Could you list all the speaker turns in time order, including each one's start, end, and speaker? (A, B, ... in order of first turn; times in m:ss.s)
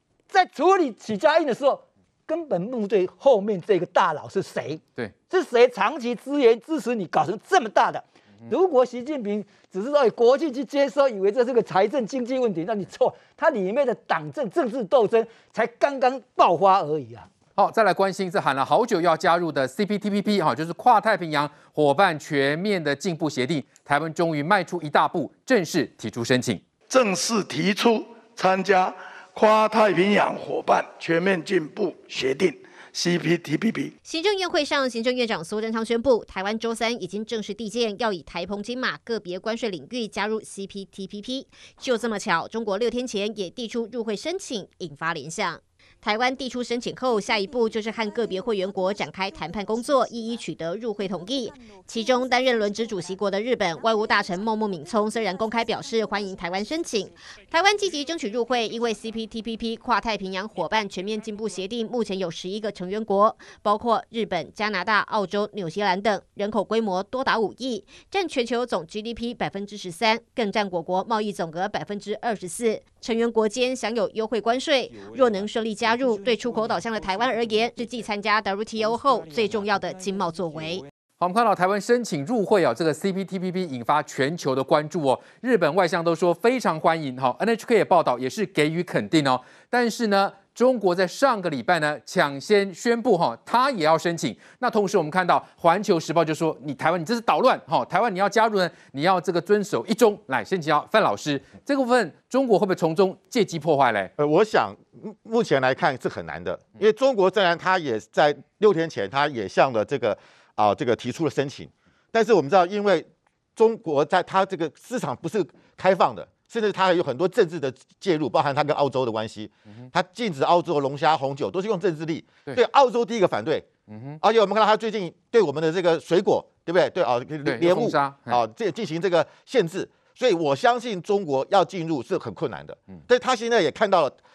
0:00.3-0:17.3 A
0:17.6-0:26.6 B
0:26.9-0:33.9 C
0:34.0-1:20.8 D
1:21.2-1:44.1 B
1:44.2-2:03.7 E
2:03.9-2:04.2 B
2:04.2-2:14.2 E
2:07.4-2:08.4 B